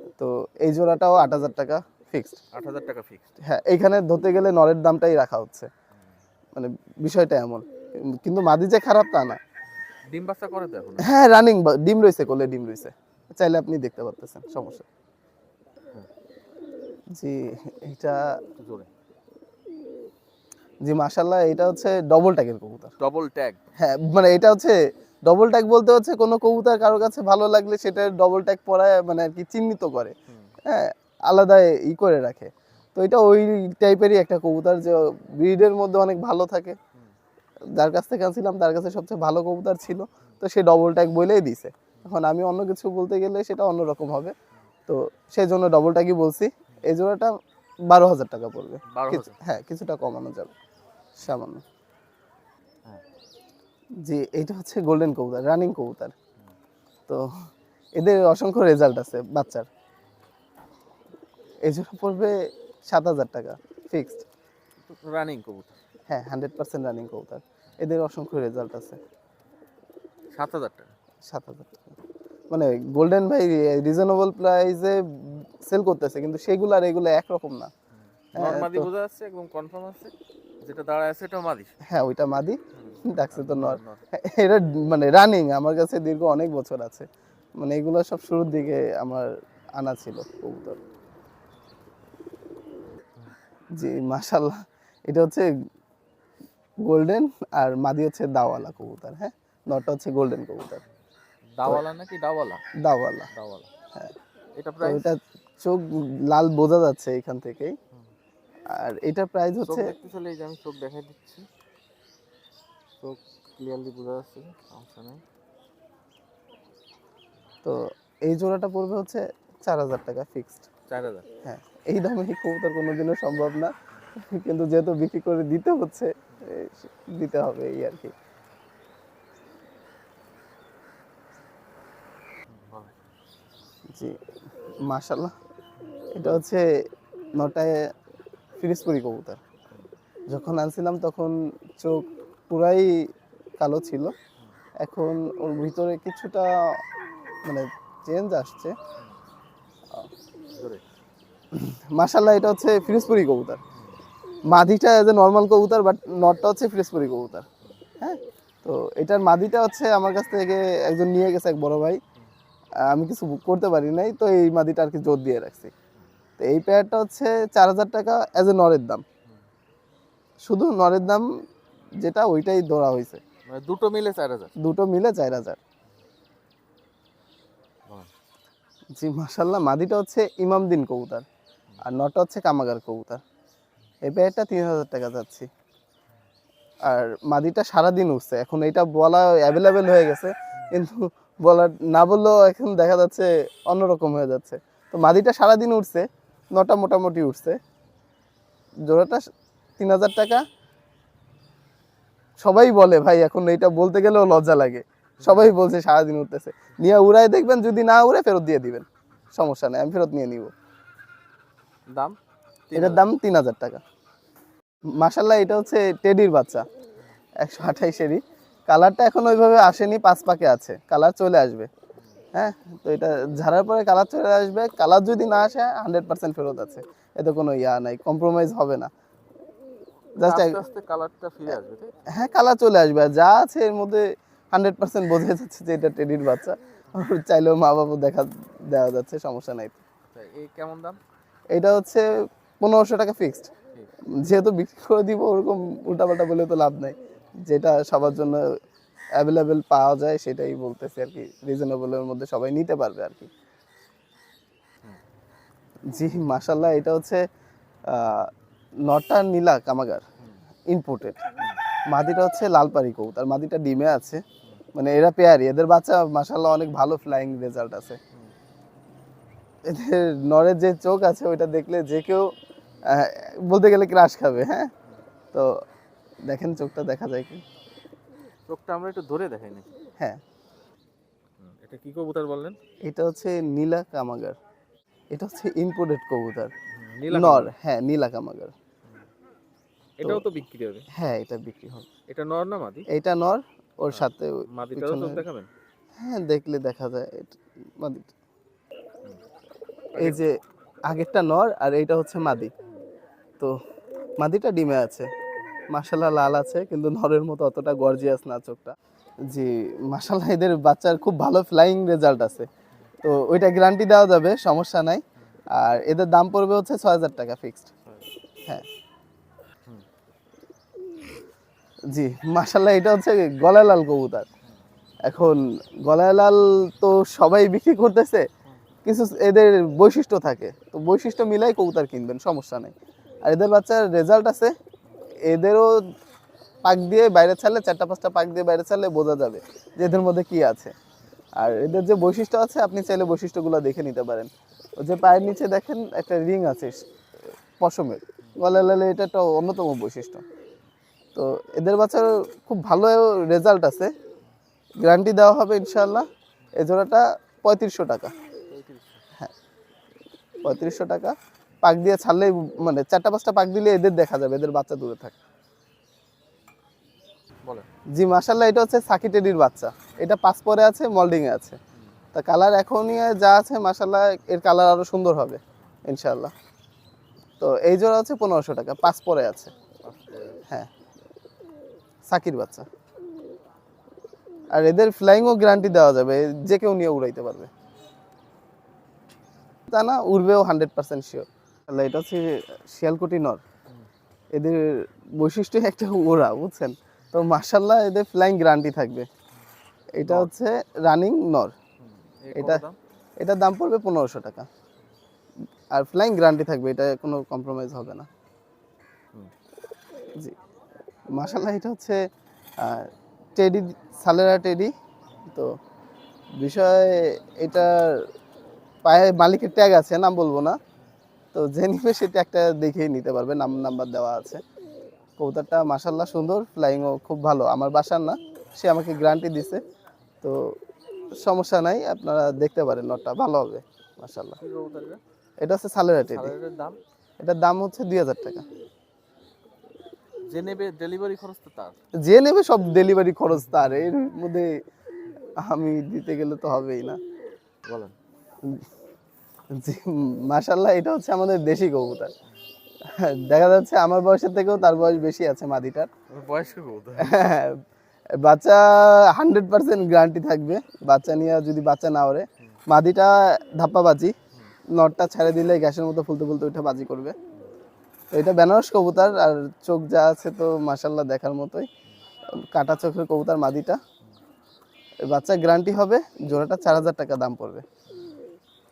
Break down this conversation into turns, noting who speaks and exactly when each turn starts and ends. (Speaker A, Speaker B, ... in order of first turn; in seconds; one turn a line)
Speaker A: 0.2-2.4
Speaker B: 2.5-3.3
Speaker A: 3.4-5.7
Speaker A: 6.5-9.4
Speaker B: 10.1-11.1
Speaker A: 11.0-14.9
Speaker A: 17.1-18.4
Speaker B: 18.6-18.9
Speaker A: 20.8-22.9
Speaker B: 23.0-23.6
Speaker A: 23.8-36.8
Speaker B: 30.3-30.6
Speaker A: 37.8-44.4
Speaker A: 44.9-50.5
Speaker B: 48.9-49.4
Speaker A: 51.2-51.6
Speaker A: 54.0-56.1
Speaker A: 58.0-59.7
Speaker A: 61.6-62.4
Speaker A: 62.9-64.2
Speaker B: 64.9-65.8
Speaker A: 66.1-69.0
Speaker B: 70.3-70.9
Speaker A: 71.3-72.0
Speaker A: 72.5-77.7
Speaker A: 78.3-78.9
Speaker B: 78.3-81.7
Speaker A: 81.8-90.8
Speaker B: 82.7-84.0
Speaker A: 93.8-95.5
Speaker A: 96.8-100.8
Speaker B: 101.6-102.6
Speaker A: 102.8-103.3
Speaker B: 103.3-103.7
Speaker B: 104.6-105.1
Speaker A: 104.8-107.8
Speaker A: 108.7-109.9
Speaker B: 109.7-111.5
Speaker B: 113.0-115.2
Speaker A: 117.6-120.7
Speaker B: 120.9-121.3
Speaker A: 121.4-128.1
Speaker B: 132.5-132.9
Speaker A: 133.9-134.2
Speaker A: 134.8-135.3
Speaker A: 136.2-136.7
Speaker A: 137.3-137.8
Speaker A: 138.6-139.4
Speaker A: 140.3-143.1
Speaker A: 143.6-144.2
Speaker A: 144.8-146.8
Speaker A: 147.4-148.8
Speaker A: 151.5-153.6
Speaker A: 154.5-157.4
Speaker A: 158.0-162.0
Speaker A: 162.9-165.7
Speaker A: 166.4-169.0
Speaker A: 170.4-171.3
Speaker A: 172.0-173.2
Speaker B: 173.5-174.5
Speaker A: 174.6-175.6
Speaker A: 179.0-181.3
Speaker A: 181.8-183.2
Speaker A: 184.0-185.5
Speaker A: 186.8-197.6
Speaker A: 198.9-199.2
Speaker A: 199.8-200.4
Speaker A: 202.4-210.5
Speaker B: 205.2-205.5
Speaker B: 212.7-213.1
Speaker A: 212.8-213.8
Speaker A: 215.0-216.7
Speaker A: 217.4-221.7
Speaker A: 222.3-228.9
Speaker A: 230.2-230.6
Speaker B: 230.2-231.9
Speaker A: 232.1-239.8
Speaker B: 240.1-241.0
Speaker A: 241.5-242.1
Speaker A: 242.6-243.5
Speaker A: 244.2-248.5
Speaker A: 249.2-253.3
Speaker A: 255.9-257.2
Speaker A: 257.9-258.3
Speaker A: 258.9-260.1
Speaker A: 260.7-261.2
Speaker A: 261.9-268.0
Speaker A: 269.6-272.3
Speaker A: 272.9-274.7
Speaker A: 276.3-277.4
Speaker B: 278.5-279.7
Speaker B: 281.4-282.6
Speaker A: 282.8-284.4
Speaker A: 285.1-286.5
Speaker B: 286.7-287.5
Speaker A: 287.1-288.5
Speaker B: 290.0-290.9
Speaker A: 290.9-291.9
Speaker B: 292.1-292.9
Speaker A: 292.9-295.2
Speaker B: 293.9-295.5
Speaker A: 296.0-298.1
Speaker A: 299.9-302.5
Speaker B: 300.0-300.2
Speaker A: 304.2-305.1
Speaker A: 305.7-308.8
Speaker A: 309.3-312.5
Speaker A: 313.0-315.0
Speaker A: 315.5-317.7
Speaker A: 321.9-324.3
Speaker A: 325.0-328.3
Speaker A: 328.9-334.6
Speaker A: 335.3-335.8
Speaker A: 336.6-340.7
Speaker A: 341.4-346.8
Speaker A: 347.6-350.2
Speaker A: 351.1-353.9
Speaker A: 354.8-358.1
Speaker B: 358.5-359.0
Speaker A: 360.4-365.2
Speaker A: 367.9-371.6
Speaker A: 372.1-376.3
Speaker A: 377.4-379.5
Speaker B: 379.8-380.4
Speaker A: 382.1-382.7
Speaker A: 384.5-387.5
Speaker A: 389.7-393.4
Speaker A: 394.3-399.1
Speaker A: 400.0-401.5
Speaker B: 400.1-400.3
Speaker B: 401.8-402.8
Speaker A: 402.3-402.6
Speaker A: 403.2-404.5
Speaker A: 405.7-408.1
Speaker A: 411.1-412.0
Speaker A: 412.6-414.7
Speaker A: 415.3-415.6
Speaker A: 416.4-418.1
Speaker A: 418.8-420.6
Speaker A: 421.3-424.4
Speaker A: 425.2-429.6
Speaker A: 430.2-430.5
Speaker A: 431.2-434.4
Speaker B: 434.4-435.0
Speaker A: 435.4-436.3
Speaker B: 436.0-436.8
Speaker A: 437.2-438.5
Speaker B: 440.3-441.8
Speaker A: 442.0-444.5
Speaker A: 445.4-447.0
Speaker B: 447.7-447.9
Speaker A: 449.5-452.1
Speaker A: 452.8-455.9
Speaker B: 456.1-457.1
Speaker A: 457.0-457.6
Speaker A: 458.2-464.1
Speaker A: 464.8-467.2
Speaker A: 468.1-471.7
Speaker A: 472.5-473.8
Speaker A: 475.1-477.6